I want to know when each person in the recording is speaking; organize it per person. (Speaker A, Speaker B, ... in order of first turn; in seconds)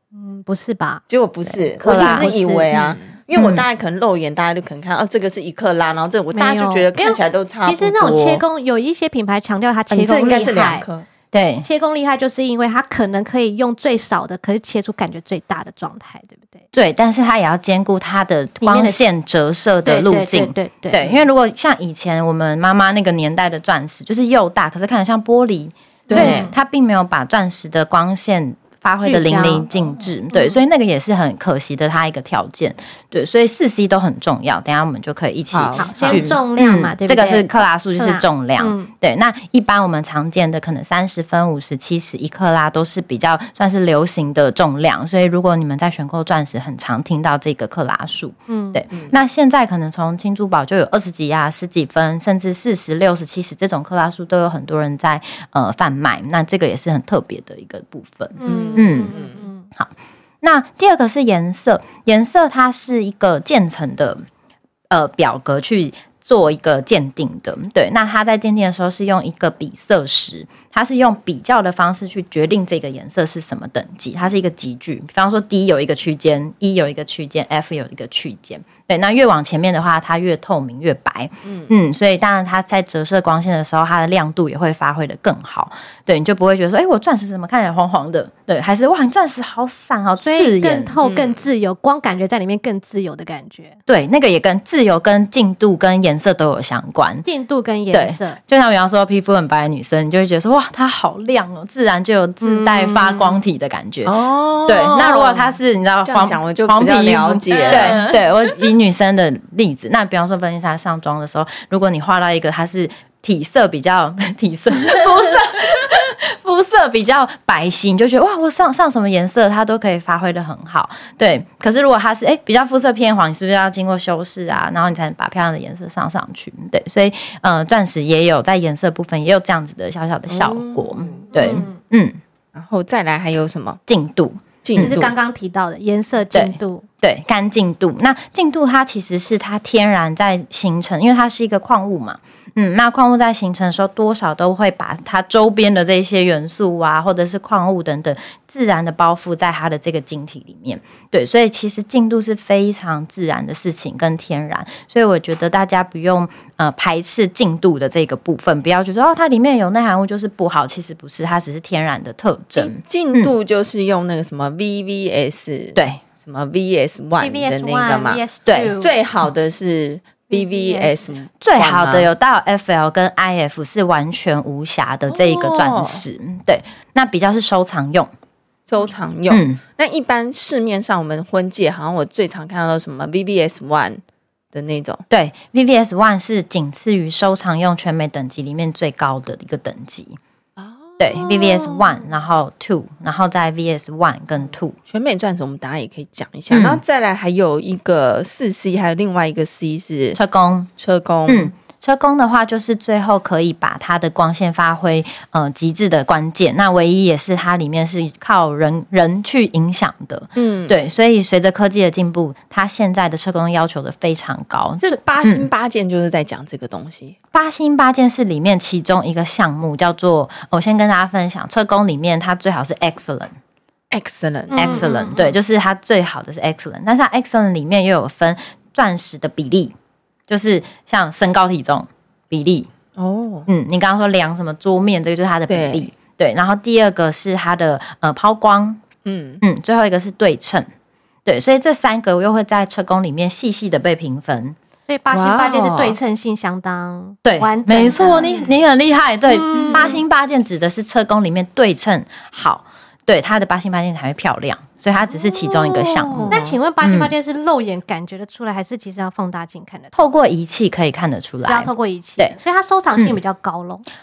Speaker A: 0.1-1.0, 1.8-3.0, 6.3-10.9, 11.6-16.6, 18.6-19.0, 19.9-21.0, 26.1-26.6, 29.0-29.7, 35.8-38.9, 48.5-48.8, 58.4-59.7, 90.2-93.8, 97.2-98.4, 102.4-103.4, 131.3-131.7, 134.8-136.8, 167.2-168.9, 170.3-171.0, 224.5-225.3, 244.9-248.3, 249.3-250.0, 256.3-259.9, 261.4-263.8
Speaker B: 1.1-8.4, 9.9-11.1, 21.0-21.2, 26.1-26.5, 35.5-36.4, 58.4-59.5, 81.4-81.7, 91.0-91.4, 104.0-108.2, 130.3-131.4, 132.5-133.8, 134.6-135.1, 162.6-168.2, 168.8-172.1, 175.1-176.1, 178.7-184.0, 184.5-185.0, 190.6-192.0, 194.9-200.2, 200.8-201.5, 210.3-210.8, 214.8-217.2, 223.9-225.3, 232.9-233.5, 235.5-235.9, 239.0-239.4, 245.1-246.0, 248.2-248.5, 249.5-250.0, 255.1-256.6
Speaker C: 1.8-2.3, 3.3-3.6, 11.3-11.7, 16.7-59.2, 59.7-64.2, 64.9-90.9, 93.9-97.2, 97.9-132.2, 133.9-135.0, 136.3-163.3, 165.7-166.0, 168.4-168.7, 171.4-178.1, 179.3-179.6, 185.1-190.2, 191.0-194.8, 196.5-196.8, 200.1-200.7, 201.3-215.5, 217.3-223.3, 224.5-229.7, 230.3-232.7, 233.5-238.8, 239.4-240.7, 241.2-244.6, 247.2-257.1, 259.9-262.4